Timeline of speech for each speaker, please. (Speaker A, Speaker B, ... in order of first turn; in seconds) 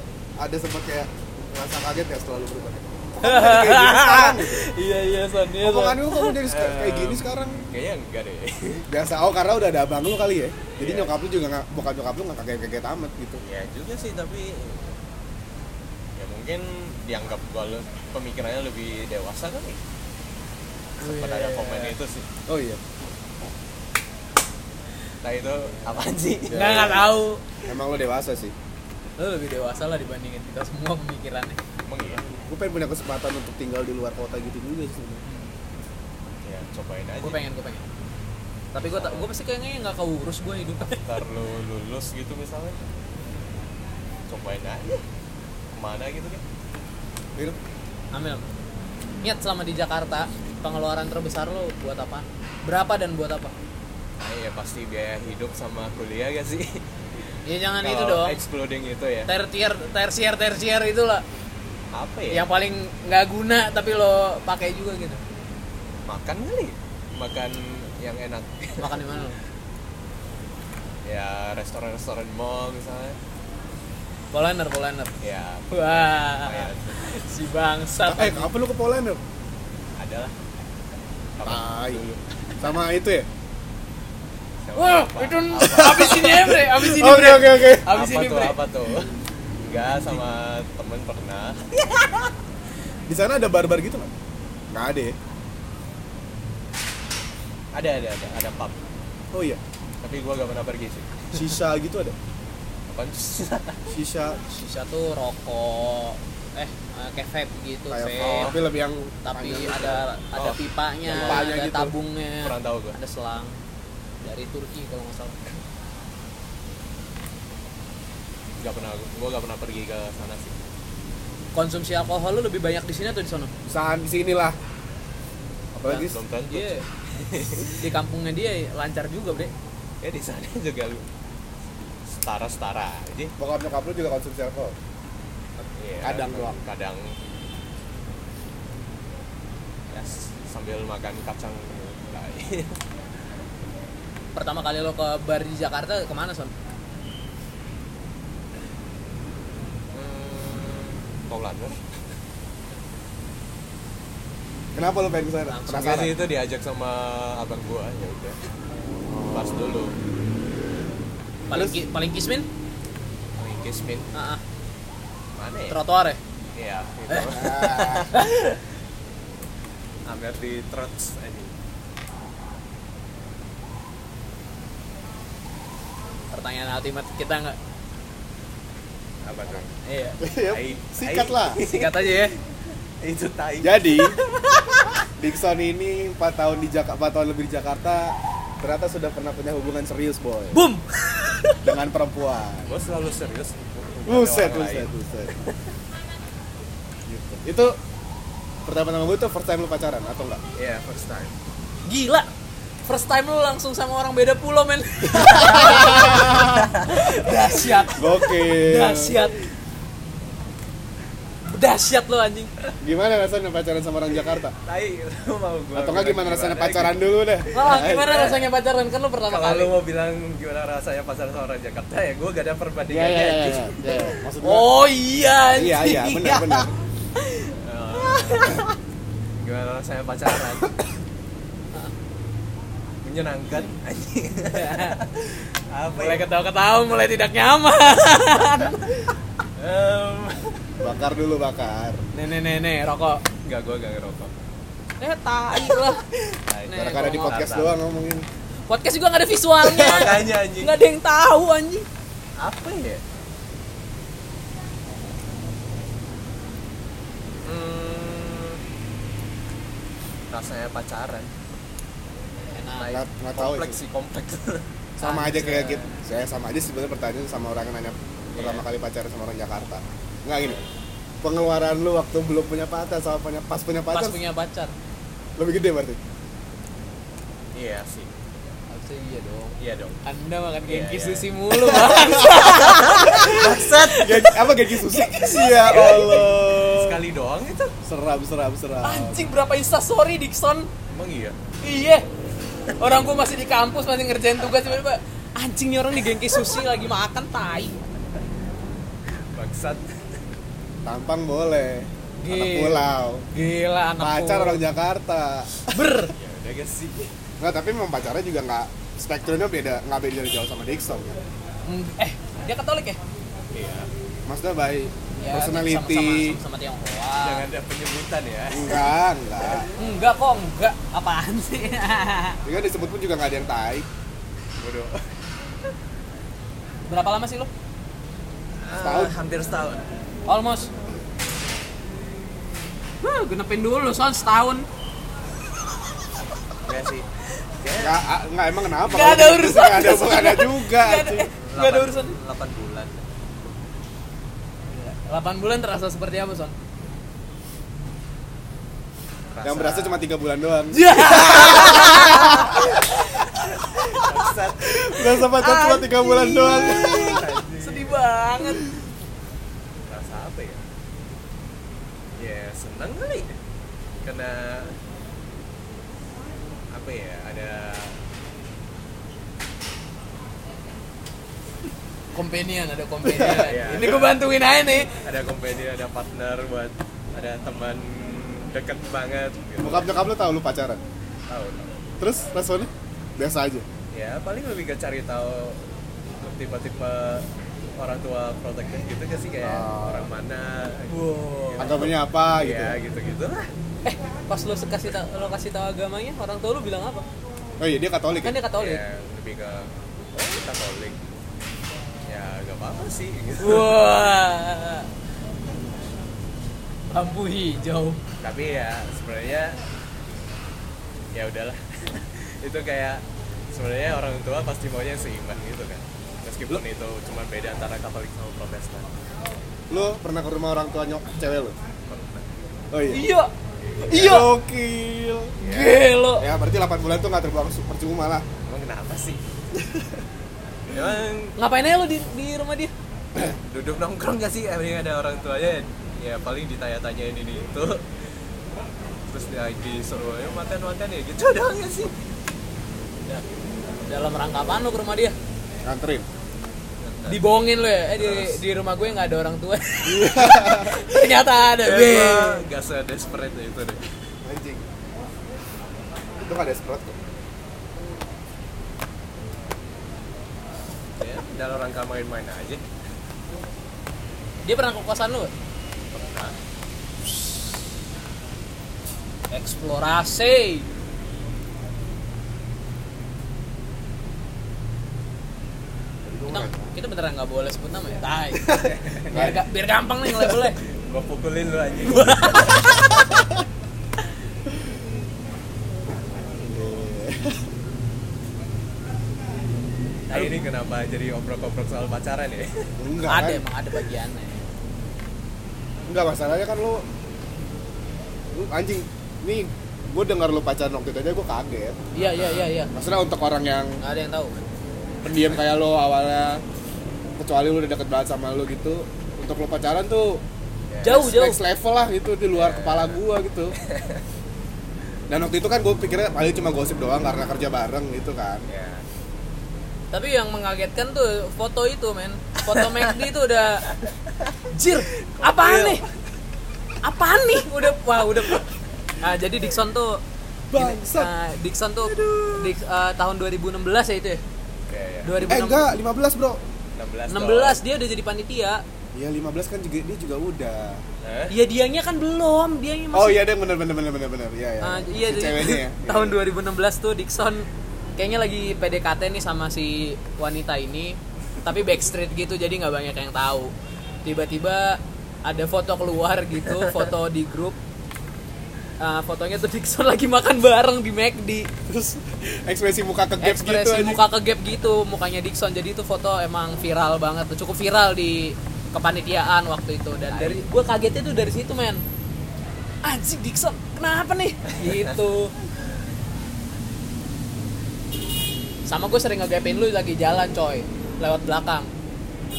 Speaker A: 0.4-4.7, 5.6-7.7, 8.9-13.4, 22.5-22.8, 26.5-27.1, 27.7-28.5, 32.5-35.2, 78.1-79.2, 81.4-82.0, 82.6-83.3, 85.6-87.9, 93.1-94.1, 94.7-95.2, 99.3-99.6, 101.3-102.2, 103.9-104.4, 107.9-110.0, 111.1-111.9, 123.7-124.6, 125.8-126.2, 133.4-134.8, 136.0-136.6, 154.8-156.2, 159.0-159.8, 161.5-161.8, 167.3-168.1, 180.2-181.6, 183.6-184.2, 185.2-190.6, 191.6-192.7, 194.1-195.4, 197.1-197.8, 198.7-200.4, 205.2-206.7, 207.9-209.2, 212.8-214.5, 215.8-218.2, 222.9-224.7, 225.6-226.7, 240.8-242.0, 246.7-248.3, 262.9-263.8, 265.0-270.6, 271.2-274.2, 275.4-276.0, 281.7-282.5, 283.0-287.0, 287.9-289.2, 300.8-303.2, 304.0-305.7, 307.4-311.2, 314.3-316.4, 318.5-319.7, 322.4-323.9, 328.8-329.1, 337.8-341.3, 349.4-352.8, 354.6-357.2, 373.0-374.0, 379.6-380.8, 382.0-383.7, 389.4-390.1, 391.6-392.8, 397.6-398.4, 419.7-421.6, 422.7-423.1, 423.9-425.4, 426.2-428.3, 445.6-446.1, 449.8-450.8, 454.2-454.6, 456.2-457.0, 476.1-476.7, 478.4-479.4, 486.1-487.5, 492.8-493.4, 495.9-496.9, 498.3-501.8, 502.7-503.8, 505.0-506.4, 507.2-510.2, 510.9-513.6, 515.1-518.5, 530.5-531.1, 535.3-536.4, 538.9-540.8, 542.9-546.2, 561.7-564.0
Speaker B: 3.2-6.3, 21.0-21.9, 26.5-27.4, 29.2-31.6, 37.2-37.9, 38.7-41.1, 48.1-48.4, 49.2-53.5, 57.5-58.4, 59.3-61.2, 62.3-65.2, 68.8-69.4, 74.3-75.1, 75.7-78.5, 84.8-88.6, 104.5-108.5, 109.2-113.6, 114.2-115.5, 121.5-123.5, 125.9-126.9, 127.4-129.5, 144.3-146.5, 155.5-156.0, 161.5-162.5, 164.1-164.4, 165.7-166.2, 167.1-168.3, 176.3-177.6, 179.8-180.2, 181.6-182.3, 190.5-191.7, 201.9-202.3, 202.8-209.5, 211.5-212.5, 217.5-219.7, 224.4-226.7, 228.1-228.7, 234.5-235.0, 235.9-238.9, 242.1-243.2, 245.0-246.0, 246.7-247.4, 248.7-251.9, 262.5-262.9, 265.0-265.9, 273.9-274.7, 278.7-286.2, 288.8-290.7, 291.6-292.1, 292.8-297.8, 302.2-304.6, 305.7-306.1, 311.7-313.0, 315.2-317.5, 319.8-322.4, 326.9-327.5, 330.3-330.7, 333.0-334.7, 338.8-342.2, 344.7-346.6, 350.7-353.0, 355.1-358.8, 372.1-375.0, 390.9-391.9, 393.9-397.1, 398.2-398.8, 403.4-404.9, 406.9-408.0, 422.9-423.3, 423.9-424.3, 425.4-426.3, 431.4-432.7, 443.9-445.1, 447.1-452.4, 464.4-465.3, 469.3-470.7, 476.3-480.6, 493.1-494.5, 501.9-502.7, 503.8-504.3, 510.8-511.4, 519.9-523.7, 524.5-525.8, 526.8-528.5, 529.0-530.0, 530.5-534.2, 535.0-535.8, 537.1-538.6, 541.3-543.2, 544.6-553.5, 554.0-557.6, 558.8-561.5, 563.2-571.8, 572.8-575.3, 578.7-581.7
Speaker C: 6.4-8.9, 10.8-11.1, 13.4-15.0, 16.2-19.8, 21.0-22.3, 25.2-27.0, 31.9-32.2, 36.4-37.4, 38.9-39.3, 40.9-42.8, 44.3-45.0, 45.7-46.4, 54.2-56.8, 57.8-59.3, 61.9-62.5, 66.1-69.2, 71.1-73.2, 75.2-77.2, 80.0-80.4, 81.4-82.2, 84.6-86.2, 87.9-92.3, 97.7-98.8, 100.0-101.5, 102.9-103.8, 108.2-108.6, 110.3-111.5, 112.4-113.0, 118.6-120.6, 125.9-127.9, 130.0-131.1, 132.1-133.3, 135.6-137.1, 139.9-142.8, 149.9-151.8, 155.7-158.4, 159.3-159.9, 163.4-164.1, 165.3-165.8, 166.6-168.6, 170.1-171.5, 179.2-179.7, 180.4-182.3, 183.0-185.1, 192.7-195.6, 200.6-201.3, 206.5-206.9, 214.6-218.4, 219.3-224.0, 227.6-228.7, 229.4-230.8, 233.0-236.3, 239.6-240.6, 243.4-244.3, 246.5-247.8, 249.7-250.8, 252.4-253.0, 257.4-258.6, 260.3-261.3, 262.8-264.7, 268.4-268.7, 277.6-278.2, 279.6-280.0, 280.7-284.2, 285.6-287.7, 290.9-291.4, 299.3-300.2, 306.1-307.1, 313.5-313.9, 317.2-319.7, 324.6-325.0, 328.6-329.8, 336.6-337.1, 337.6-338.0, 341.4-343.1, 349.3-350.1, 351.6-355.0, 356.7-358.0, 359.9-360.6, 362.2-363.3, 364.0-364.8, 366.7-368.0, 373.2-374.2, 374.8-380.0, 381.3-381.7, 383.9-385.7, 386.2-387.3, 387.8-393.5, 398.6-401.0, 402.1-403.7, 408.2-409.6, 411.1-418.9, 421.9-422.3, 425.4-425.9, 428.5-429.2, 430.7-431.4, 433.2-437.9, 439.1-441.9, 443.1-443.4, 446.8-448.4, 451.6-453.8, 461.0-462.6, 465.9-466.4, 478.7-479.2, 480.9-483.1, 490.1-492.7, 502.0-502.5, 510.7-511.2, 512.3-513.0, 513.6-514.0, 518.5-518.8, 523.8-524.3, 525.1-525.9, 531.9-532.5, 534.7-535.3, 536.8-537.6, 541.0-541.3, 570.1-570.4, 574.6-575.0